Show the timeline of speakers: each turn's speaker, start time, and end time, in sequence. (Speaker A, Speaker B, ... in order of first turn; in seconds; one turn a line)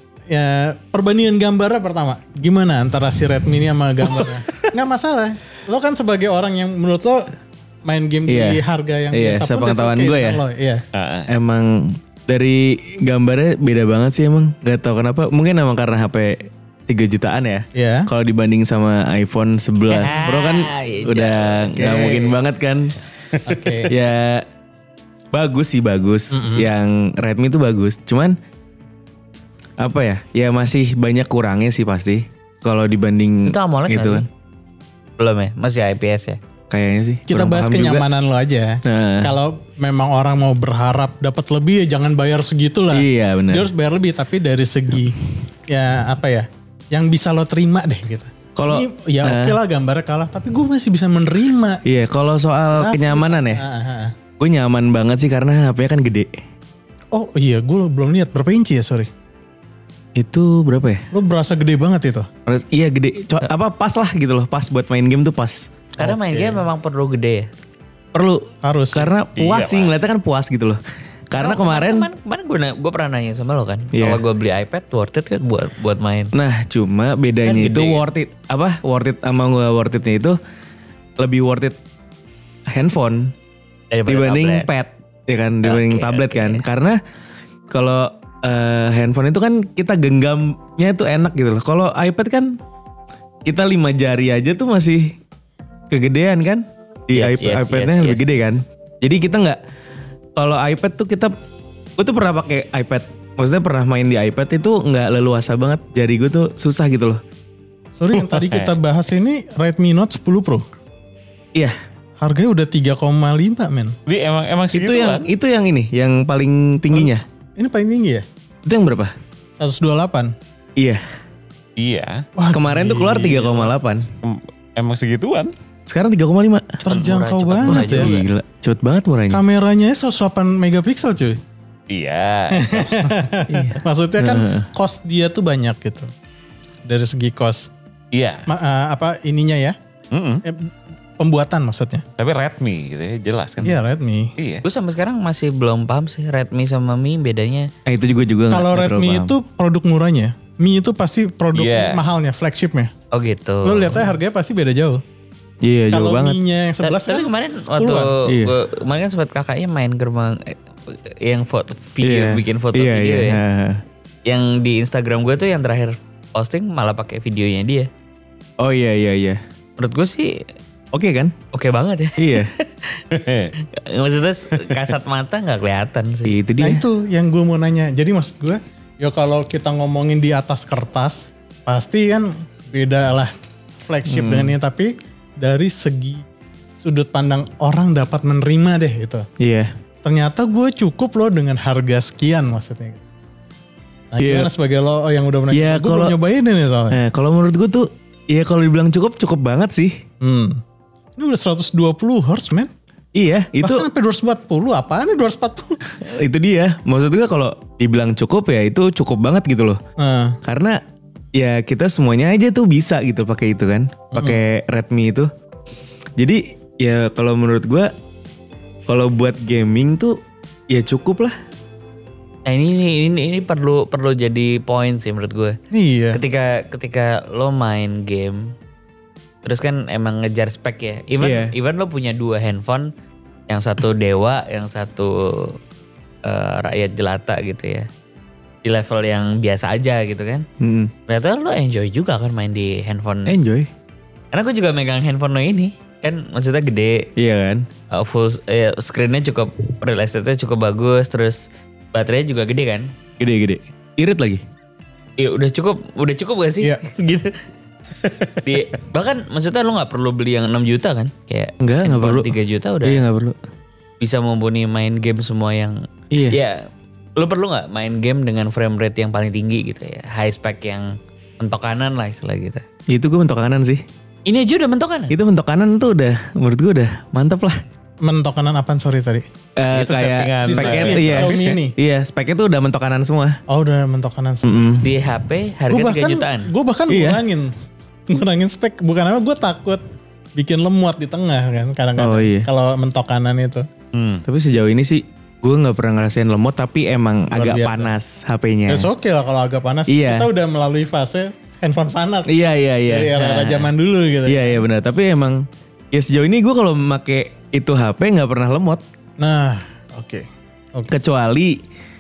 Speaker A: 0.3-7.3
Speaker A: 7.9-10.8
Speaker B: 8.3-10.4
Speaker C: 10.9-11.3
Speaker B: 11.3-23.0
Speaker A: 17.7-18.1
Speaker D: 19.9-22.1
Speaker A: 21.8-22.4
Speaker A: 23.5-23.9
Speaker B: 23.9-24.5
Speaker B: 25.3-28.4
Speaker A: 26.3-26.7
Speaker B: 29.8-34.3
Speaker D: 33.5-34.3
Speaker D: 35.2-36.4
Speaker B: 36.7-38.1
Speaker A: 37.3-45.2
Speaker B: 38.9-39.3
Speaker B: 42.9-43.7
Speaker A: 45.7-51.8
Speaker B: 48.6-49.6
Speaker B: 51.9-53.6
Speaker A: 52.7-54.1
Speaker B: 54.4-56.4
Speaker A: 57.1-59.1
Speaker B: 60.2-61.1
Speaker A: 61.1-62.3
Speaker B: 62.5-65.7
Speaker D: 66.0-67.5
Speaker A: 66.0-66.6
Speaker B: 68.1-72.1
Speaker A: 68.6-69.1
Speaker C: 69.4-70.0
Speaker D: 71.3-76.3
Speaker B: 73.9-74.2
Speaker B: 76.3-80.4
Speaker D: 77.4-78.0
Speaker B: 81.2-81.8
Speaker B: 82.7-83.3
Speaker D: 83.9-84.7
Speaker B: 84.1-87.0
Speaker D: 85.6-86.7
Speaker B: 87.7-92.6
Speaker B: 93.5-95.2
Speaker B: 95.9-99.6
Speaker D: 97.1-98.3
Speaker B: 100.4-101.3
Speaker B: 102.0-107.2
Speaker A: 108.0-110.7
Speaker C: 108.1-108.8
Speaker A: 112.2-114.0
Speaker C: 114.1-115.3
Speaker B: 114.7-117.2
Speaker A: 116.9-118.2
Speaker B: 118.7-119.2
Speaker A: 119.6-120.3
Speaker B: 120.8-121.0
Speaker C: 121.8-122.2
Speaker A: 122.4-123.7
Speaker B: 122.5-124.1
Speaker C: 124.2-125.5
Speaker B: 125.9-126.8
Speaker A: 126.8-128.2
Speaker D: 126.9-128.3
Speaker B: 127.7-129.4
Speaker A: 129.3-131.4
Speaker C: 131.9-133.1
Speaker A: 132.5-136.1
Speaker B: 133.5-134.7
Speaker A: 136.9-137.7
Speaker C: 138.1-138.5
Speaker A: 138.5-139.8
Speaker C: 140.1-140.4
Speaker A: 140.4-142.1
Speaker C: 142.2-143.8
Speaker A: 143.6-144.3
Speaker C: 144.4-144.6
Speaker D: 144.6-147.7
Speaker B: 147.9-149.3
Speaker A: 148.5-152.9
Speaker C: 151.6-152.0
Speaker D: 153.1-154.0
Speaker A: 153.6-155.0
Speaker B: 155.6-156.4
Speaker A: 155.9-158.1
Speaker D: 156.8-163.4
Speaker B: 158.3-158.5
Speaker B: 162.0-163.8
Speaker D: 164.3-167.9
Speaker B: 168.6-169.4
Speaker D: 169.8-170.4
Speaker B: 170.9-171.3
Speaker D: 171.5-173.0
Speaker B: 172.2-172.5
Speaker C: 173.1-173.5
Speaker D: 173.6-176.4
Speaker B: 176.3-176.8
Speaker A: 176.6-183.3
Speaker A: 183.8-186.2
Speaker B: 184.1-184.6
Speaker A: 186.8-189.3
Speaker B: 189.4-189.7
Speaker A: 190.0-193.0
Speaker A: 194.1-197.0
Speaker B: 194.2-194.5
Speaker B: 195.5-196.2
Speaker B: 196.9-200.0
Speaker A: 200.2-200.6
Speaker A: 201.2-202.7
Speaker B: 203.2-203.9
Speaker A: 203.6-205.8
Speaker B: 205.9-209.8
Speaker A: 210.0-210.4
Speaker B: 210.4-210.8
Speaker B: 211.3-215.3
Speaker A: 214.1-214.4
Speaker B: 216.2-217.9
Speaker B: 218.9-220.2
Speaker B: 220.7-221.4
Speaker D: 222.5-225.6
Speaker A: 225.7-226.2
Speaker D: 226.1-228.5
Speaker D: 229.4-232.9
Speaker B: 231.2-231.5
Speaker D: 233.5-235.6
Speaker D: 236.2-237.9
Speaker D: 238.7-240.5
Speaker B: 240.6-240.9
Speaker D: 241.1-243.4
Speaker B: 243.3-243.7
Speaker D: 244.3-247.1
Speaker B: 247.2-247.7
Speaker D: 247.9-252.9
Speaker B: 253.2-254.4
Speaker D: 255.2-257.4
Speaker D: 258.4-263.0
Speaker B: 261.6-262.3
Speaker B: 262.8-263.4
Speaker D: 264.0-266.7
Speaker B: 266.1-266.4
Speaker D: 267.2-272.6
Speaker B: 272.9-273.8
Speaker D: 274.3-275.1
Speaker B: 275.1-277.6
Speaker A: 278.0-279.2
Speaker B: 279.6-283.4
Speaker C: 279.7-281.6
Speaker A: 280.4-281.8
Speaker A: 283.5-284.8
Speaker B: 284.4-284.9
Speaker D: 284.8-286.5
Speaker A: 285.7-287.5
Speaker B: 286.9-287.2
Speaker A: 288.1-289.8
Speaker A: 290.4-293.7
Speaker B: 292.0-292.5
Speaker C: 293.9-294.3
Speaker B: 294.3-298.9
Speaker A: 297.3-297.9
Speaker A: 298.7-302.3
Speaker B: 299.9-300.3
Speaker B: 302.3-303.7
Speaker A: 302.9-304.6
Speaker B: 304.3-308.8
Speaker A: 309.2-310.9
Speaker B: 310.9-311.6